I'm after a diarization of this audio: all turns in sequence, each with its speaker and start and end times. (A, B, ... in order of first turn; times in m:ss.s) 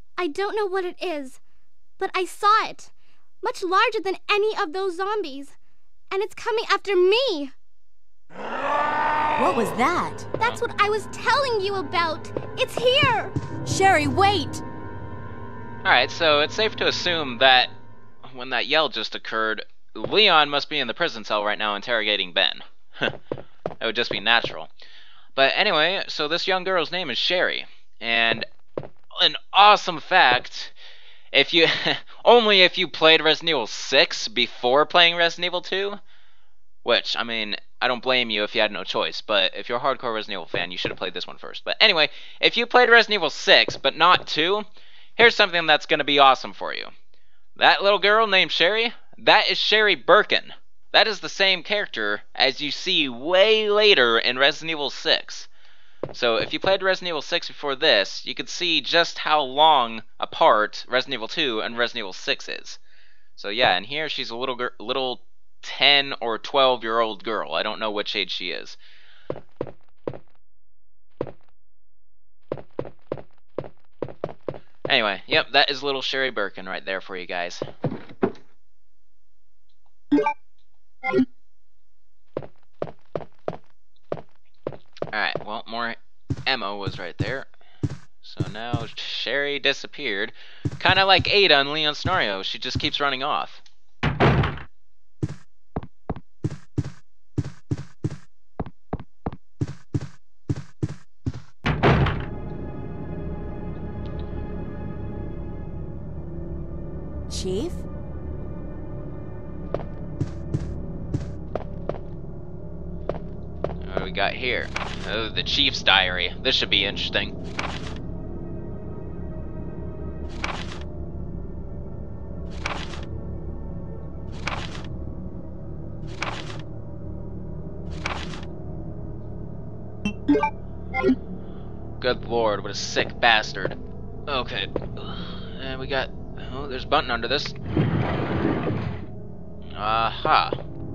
0:00.2-0:01.4 A
0:02.0-0:05.6 A
0:06.1-0:07.5 A
0:09.4-0:10.3 B
0:10.4-0:13.3 A
0:13.6-0:14.6 B
0:15.8-0:17.7 C
0:18.2-0:23.1 C
0:23.8-0:24.7 C
0:25.4-0:28.4 C
0:29.2-0:30.7 C
0:31.3-0:36.0 C
0:36.8-0:44.6 C
0:45.2-0:46.9 C
0:47.6-0:55.5 C
0:56.1-1:02.8 C
1:03.4-1:08.8 C
1:14.9-1:17.6 C
1:25.1-1:27.5 C
1:28.2-1:33.6 C
1:47.3-1:47.8 B
1:53.8-1:57.3 C
2:12.0-2:17.6 C
2:19.7-2:20.6 C